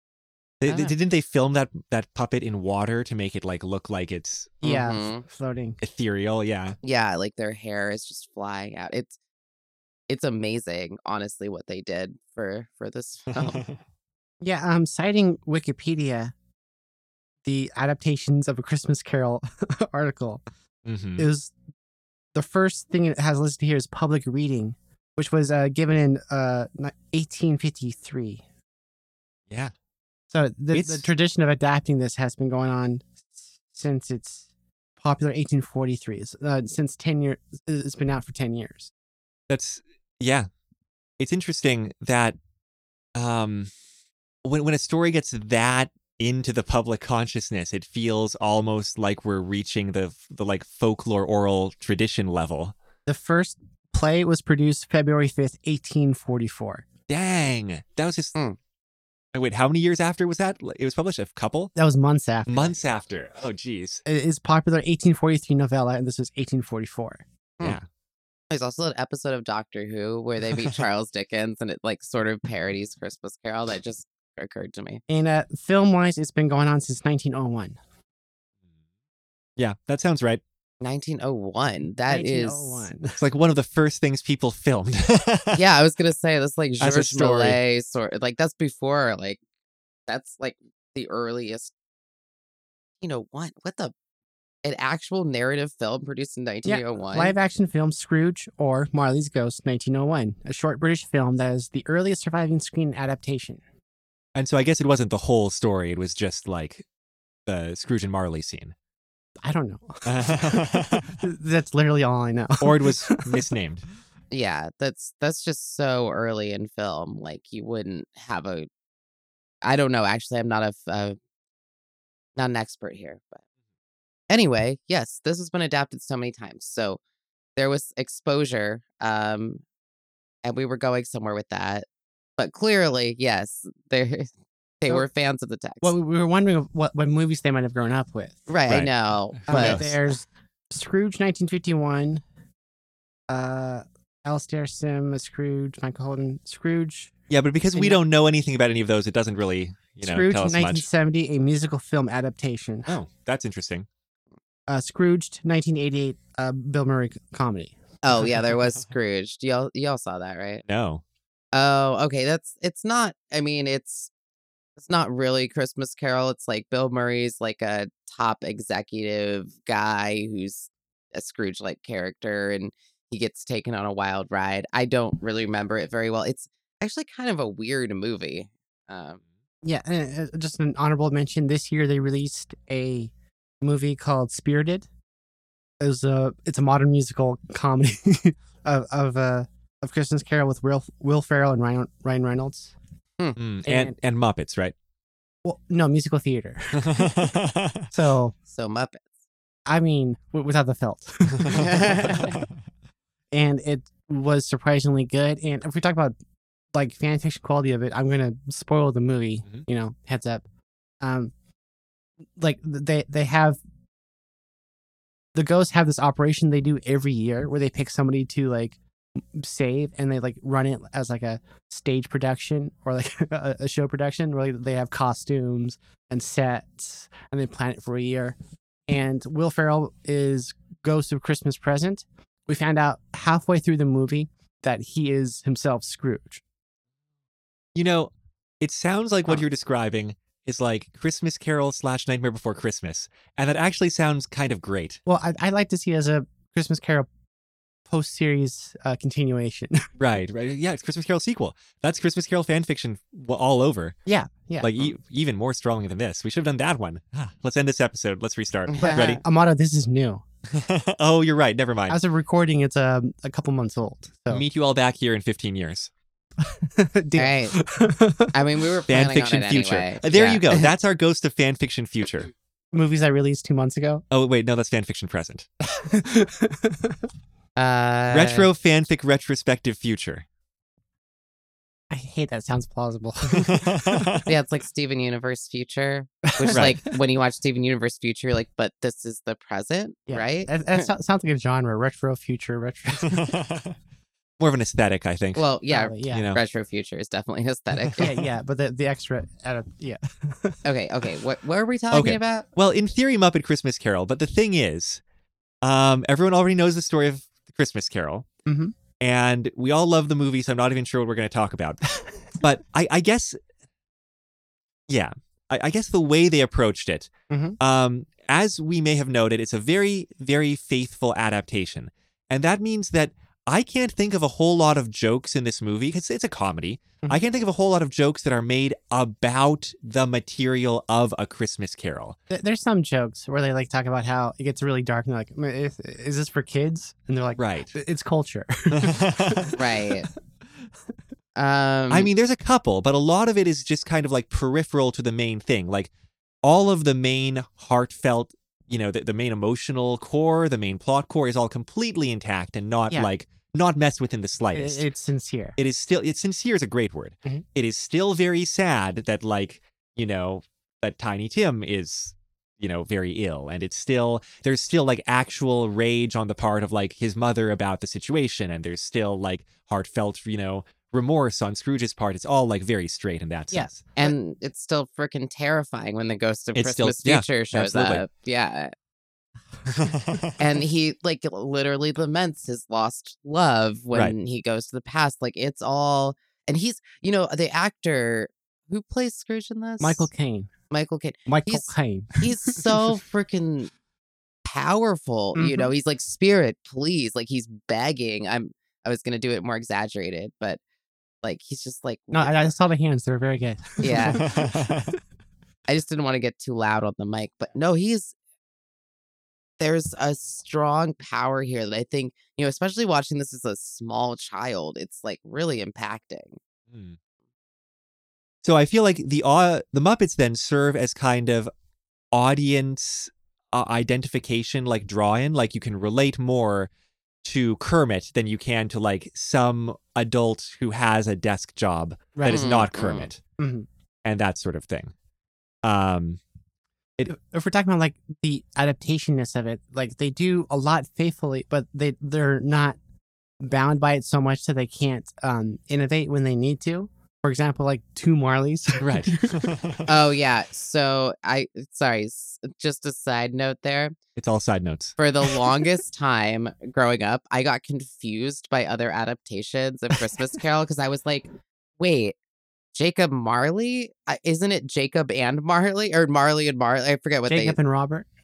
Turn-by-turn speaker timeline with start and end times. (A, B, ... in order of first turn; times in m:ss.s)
0:00.6-0:04.6 A
0:00.7-0:00.9 B
0:04.6-0:05.2 B
0:04.6-0:05.8 C
0:05.8-0:06.8 A
0:06.8-0:09.2 B
0:10.1-0:13.6 B
0:13.3-0:13.8 A
0:14.4-0:16.3 C
0:17.4-0:20.4 C
0:20.8-0:21.3 A
0:21.2-0:21.5 C
0:22.4-0:28.4 C
0:30.3-0:34.5 C
0:30.7-0:31.1 A
0:35.0-0:38.9 C
0:39.5-0:40.5 A
0:41.2-0:42.4 A
0:43.2-0:43.7 A
0:44.4-0:52.8 A
0:53.1-0:56.8 C
0:57.1-0:58.4 A
0:59.3-1:01.7 A
1:01.8-1:02.7 C
1:02.5-1:04.0 A
1:04.1-1:07.2 C
1:08.5-1:15.0 B
1:15.1-1:17.8 C
1:19.6-1:20.4 A
1:20.8-1:22.9 B
1:22.1-1:23.2 C
1:23.2-1:25.6 A
1:25.6-1:29.4 B
1:26.8-1:27.6 A
1:30.1-1:31.7 B
1:33.0-1:33.9 B
1:34.6-1:37.4 B
1:36.6-1:43.6 C
1:44.4-1:46.9 A
1:47.5-1:48.8 A
1:49.4-1:53.4 C
1:50.1-1:51.2 A
1:52.6-1:53.8 A
1:54.3-1:58.7 B
1:59.6-2:01.2 B
2:02.4-2:03.4 B
2:04.3-2:07.0 B
2:07.6-2:09.6 B
2:10.4-2:11.9 B
2:12.4-2:14.3 B
2:14.8-2:15.9 B
2:15.8-2:18.5 C
2:18.5-2:19.8 B
2:19.4-2:20.0 A
2:19.5-2:22.2 C
2:23.3-2:27.1 C
2:27.3-2:30.9 A
2:27.8-2:28.0 C
2:30.0-2:32.9 C
2:32.9-2:33.9 A
2:34.7-2:37.8 C
2:38.0-2:40.6 B
2:40.6-2:41.0 A
2:41.5-2:44.1 B
2:44.8-2:59.2 B
2:59.6-3:04.9 C
3:05.8-3:12.7 C
3:13.4-3:14.8 A
3:13.6-3:14.0 C
3:15.4-3:17.3 C
3:16.8-3:17.9 A
3:17.9-3:18.4 C
3:18.5-3:19.1 B
3:19.7-3:22.3 C
3:21.4-3:22.4 A
3:21.5-3:22.4 B
3:23.3-3:26.2 C
3:26.7-3:30.4 C
3:31.0-3:31.3 C
3:32.4-3:33.6 C
3:35.4-3:48.4 C
3:48.9-3:56.4 C
3:57.8-4:05.0 A
4:05.1-4:07.1 C
4:07.9-4:09.9 C
4:10.0-4:14.0 A
4:14.1-4:14.7 C
4:14.6-4:19.2 A
4:18.7-4:19.2 B
4:18.8-4:20.2 C
4:20.5-4:22.0 A
4:21.9-4:24.4 C
4:24.3-4:25.9 A
4:26.4-4:28.3 C
4:27.2-4:27.6 B
4:28.3-4:30.6 B
4:28.9-4:32.3 A
4:32.7-4:34.0 C
4:34.1-4:35.5 A
4:35.7-4:37.0 C
4:37.6-4:38.5 B
4:38.1-4:40.3 A
4:41.9-4:44.3 C
4:43.4-4:44.3 A
4:44.3-4:50.9 B
4:46.2-4:46.9 C
4:46.5-4:46.8 A
4:50.1-4:53.4 C
4:53.0-4:53.8 A
4:54.4-4:55.4 A
4:55.4-4:58.1 B
4:55.7-4:56.3 C
4:56.1-4:56.4 A
4:58.0-5:00.6 C
5:00.6-5:02.5 B
5:01.9-5:05.0 A
5:05.6-5:08.3 A
5:08.5-5:08.7 C
5:09.0-5:11.8 A
5:12.4-5:13.4 A
5:14.9-5:32.2 A
5:17.3-5:17.6 C
5:32.3-5:39.6 C
5:37.4-5:37.7 A
5:38.7-5:39.6 A
5:39.5-5:40.1 B
5:41.4-5:42.1 B
5:41.9-5:45.9 A
5:46.4-5:54.8 A
5:54.5-5:55.6 C
5:55.6-6:14.1 A
6:14.0-6:18.7 B
6:16.6-6:18.0 A
6:19.7-6:20.4 A
6:20.4-6:30.1 B
6:29.8-6:30.5 C
6:30.7-6:33.7 B
6:31.3-6:32.7 C
6:34.5-6:40.6 B
6:35.4-6:35.7 C
6:41.2-6:42.4 B
6:42.1-6:44.8 C
6:43.8-6:44.3 B
6:44.1-6:45.0 A
6:45.7-6:48.2 B
6:49.6-6:56.4 B
6:56.7-6:57.0 A
6:58.4-7:01.5 A
7:02.1-7:06.7 A
7:07.2-7:13.2 A
7:12.2-7:12.5 C
7:12.3-7:13.1 B
7:13.4-7:13.7 C
7:14.0-7:14.9 A
7:15.6-7:16.2 A
7:17.1-7:22.8 C
7:23.4-7:29.5 C
7:28.8-7:29.9 A
7:29.9-7:34.0 B
7:34.2-7:35.0 A
7:35.0-7:42.2 B
7:42.7-7:47.6 B
7:47.3-7:48.1 C